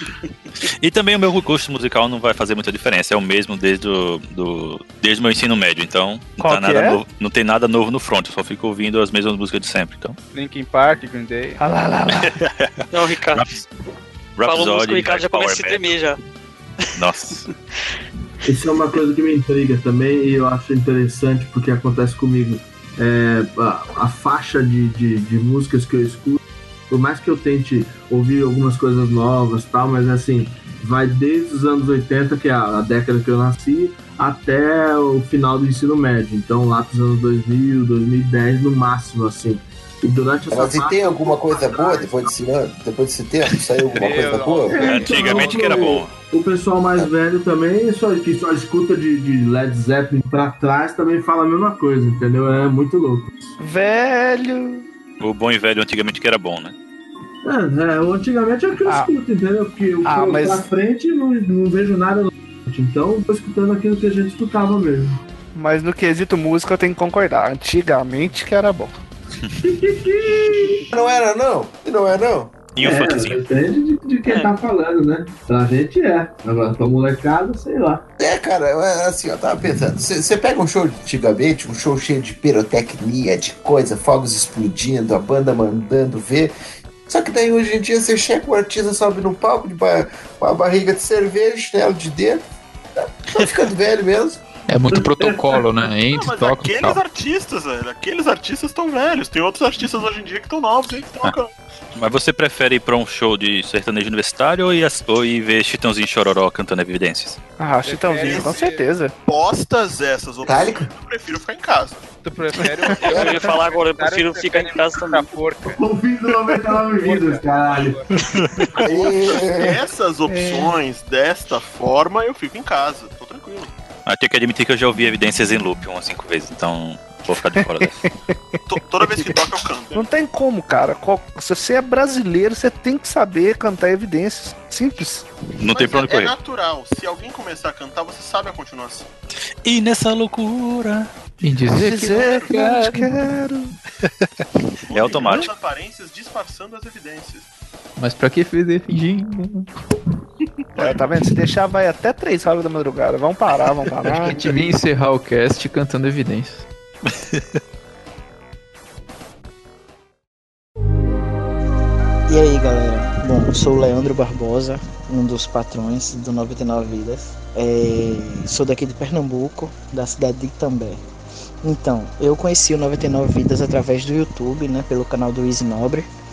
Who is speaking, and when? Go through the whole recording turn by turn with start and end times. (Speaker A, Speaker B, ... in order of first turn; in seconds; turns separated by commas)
Speaker A: 0.8-10.2, Speaker B: 6.4-7.0, Speaker C: 10.3-11.6, Speaker B: 11.6-12.3, Speaker A: 12.1-13.6, Speaker D: 12.9-13.5, Speaker A: 14.4-16.0, Speaker D: 14.4-16.2, Speaker A: 17.0-17.4, Speaker E: 18.4-42.2, Speaker F: 40.5-44.9, Speaker C: 44.0-45.9, Speaker E: 44.7-53.3, Speaker A: 44.8-46.1, Speaker B: 53.6-54.8, Speaker A: 55.2-56.7, Speaker E: 57.4-65.2, Speaker B: 58.8-59.1, Speaker B: 60.0-60.7, Speaker B: 65.5-69.0, Speaker E: 69.6-70.8, Speaker F: 70.9-72.5, Speaker A: 72.7-73.4, Speaker E: 72.8-78.0, Speaker D: 74.2-74.5, Speaker F: 78.2-86.5, Speaker F: 87.1-92.4, Speaker F: 93.0-94.4, Speaker G: 94.7-97.0, Speaker E: 94.9-95.4, Speaker H: 96.1-101.5, Speaker A: 101.9-107.4, Speaker B: 107.6-109.1, Speaker C: 107.8-108.8, Speaker H: 108.2-108.6, Speaker H: 109.3-112.0, Speaker F: 110.4-110.9, Speaker C: 112.2-115.8, Speaker D: 113.0-115.3, Speaker E: 115.7-118.0, Speaker C: 116.9-118.1, Speaker A: 118.3-118.6, Speaker H: 118.8-123.7, Speaker F: 118.8-119.8, Speaker B: 120.3-120.7, Speaker A: 124.0-128.0, Speaker B: 127.5-128.3, Speaker H: 128.7-130.1, Speaker B: 129.9-135.3, Speaker A: 135.6-136.3, Speaker H: 135.7-139.1, Speaker A: 139.6-141.1, Speaker G: 141.4-143.2, Speaker B: 141.7-143.8, Speaker H: 142.1-142.5, Speaker H: 144.9-147.5, Speaker A: 144.9-145.5, Speaker G: 148.0-149.7, Speaker B: 150.8-154.5, Speaker G: 154.0-156.6, Speaker I: 162.3-171.0, Speaker I: 171.6-176.1